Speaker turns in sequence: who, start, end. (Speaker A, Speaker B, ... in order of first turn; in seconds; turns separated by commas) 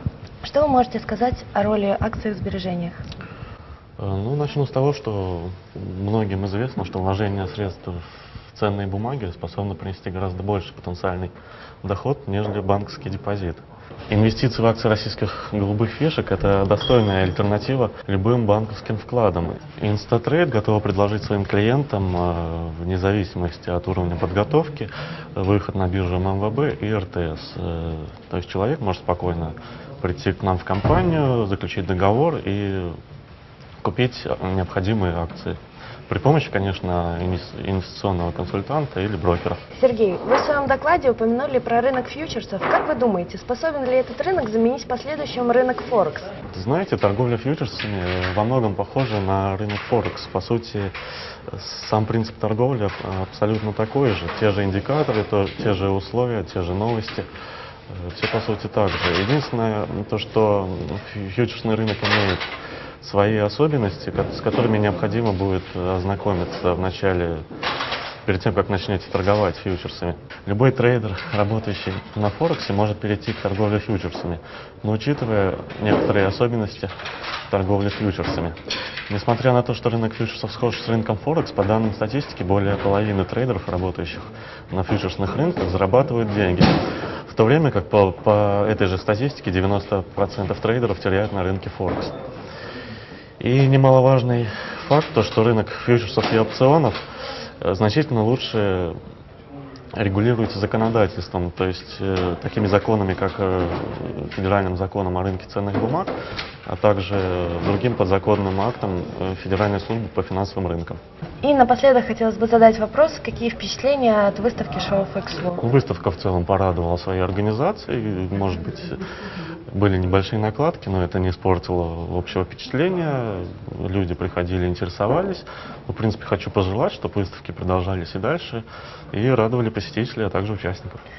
Speaker A: 0.4-3.0, Speaker B: 4.0-11.3, Speaker B: 11.8-33.0, Speaker B: 33.8-35.6, Speaker B: 36.1-39.6, Speaker A: 39.7-46.3, Speaker B: 46.5-50.9, Speaker B: 51.5-57.3, Speaker B: 57.9-62.4, Speaker B: 63.0-67.4, Speaker B: 68.2-76.9, Speaker B: 77.5-78.6, Speaker B: 79.1-92.1, Speaker B: 93.4-97.0, Speaker B: 97.6-99.0, Speaker B: 100.0-106.1, Speaker B: 106.7-111.0, Speaker A: 111.4-115.6, Speaker B: 115.6-119.0, Speaker B: 119.7-131.0